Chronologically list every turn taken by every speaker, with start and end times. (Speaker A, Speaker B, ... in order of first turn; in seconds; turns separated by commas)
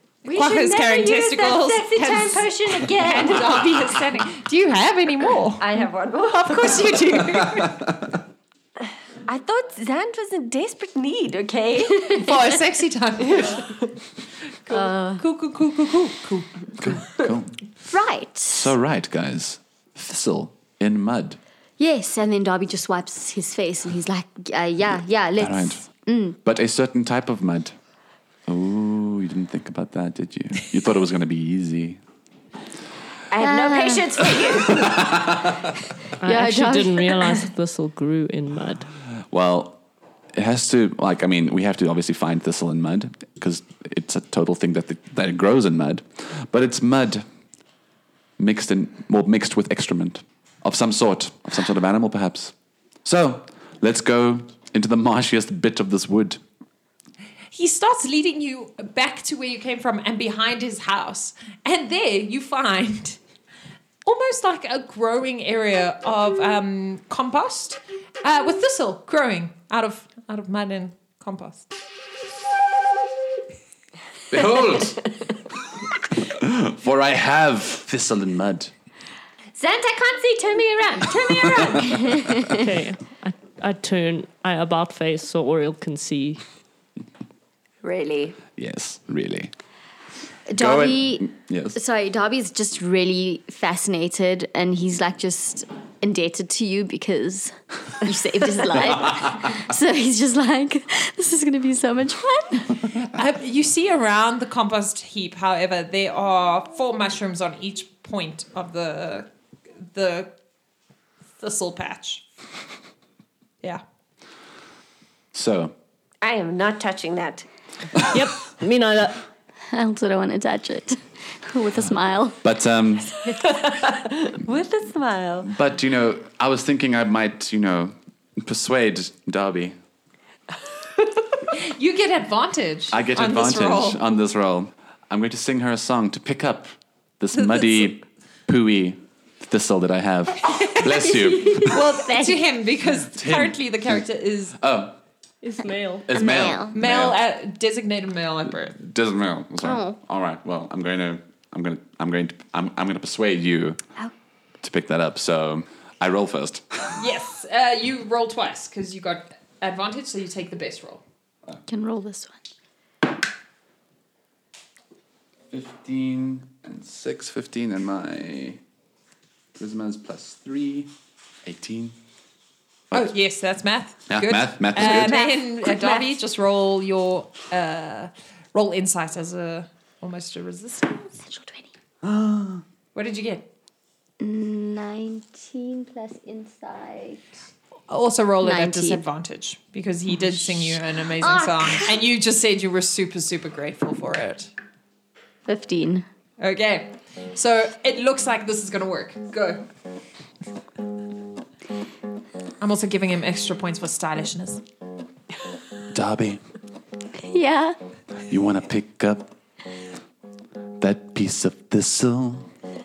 Speaker A: 0.2-4.0, Speaker B: 0.3-7.8, Speaker A: 5.6-6.9, Speaker A: 9.3-12.3, Speaker B: 12.0-13.7, Speaker A: 13.3-13.6, Speaker C: 14.7-15.2, Speaker B: 14.7-16.9, Speaker D: 16.8-17.6, Speaker C: 17.9-18.7, Speaker D: 18.5-21.4, Speaker C: 21.8-26.4, Speaker D: 25.4-25.8, Speaker D: 26.4-27.7, Speaker D: 28.5-32.0, Speaker A: 33.3-35.2, Speaker C: 33.4-34.3, Speaker D: 34.7-35.7, Speaker E: 36.2-38.9, Speaker C: 36.2-37.1, Speaker D: 39.3-39.8, Speaker D: 40.3-47.2, Speaker D: 48.4-56.4, Speaker B: 57.5-63.2, Speaker B: 64.0-71.7, Speaker D: 74.3-75.1, Speaker D: 76.2-78.7, Speaker A: 79.5-82.4, Speaker C: 82.0-82.6, Speaker E: 82.4-86.4, Speaker A: 87.8-88.4, Speaker D: 88.5-89.5, Speaker C: 90.5-102.8, Speaker D: 90.5-91.8, Speaker B: 103.0-109.3, Speaker B: 109.9-110.3, Speaker B: 111.4-112.2, Speaker D: 115.3-115.7, Speaker A: 116.2-117.5, Speaker E: 118.0-119.2, Speaker C: 119.7-122.4, Speaker D: 122.4-123.2, Speaker A: 123.3-125.5, Speaker D: 125.4-129.7, Speaker B: 131.5-134.0, Speaker D: 132.9-141.8, Speaker B: 137.4-137.8, Speaker A: 141.2-141.6, Speaker C: 141.4-142.4, Speaker B: 141.6-144.6, Speaker D: 143.0-143.6, Speaker D: 144.6-144.9, Speaker E: 145.4-146.1, Speaker D: 146.1-147.2, Speaker C: 146.1-146.8, Speaker B: 146.7-148.8, Speaker D: 148.7-153.8, Speaker C: 149.6-150.0, Speaker D: 154.6-157.0, Speaker B: 157.0-161.0, Speaker C: 161.7-162.4, Speaker D: 165.5-168.6, Speaker D: 169.6-170.9, Speaker D: 171.4-171.9, Speaker B: 172.9-181.2, Speaker D: 174.1-175.2, Speaker A: 174.8-176.1, Speaker C: 181.2-181.7, Speaker D: 182.0-182.6, Speaker B: 182.9-183.5, Speaker C: 184.2-187.2, Speaker B: 187.9-194.5, Speaker C: 188.4-189.0, Speaker C: 191.2-191.9, Speaker C: 195.4-196.1, Speaker B: 196.4-199.7, Speaker B: 202.6-204.6, Speaker D: 205.9-206.4, Speaker C: 207.1-207.8, Speaker D: 208.3-209.3, Speaker D: 210.8-212.5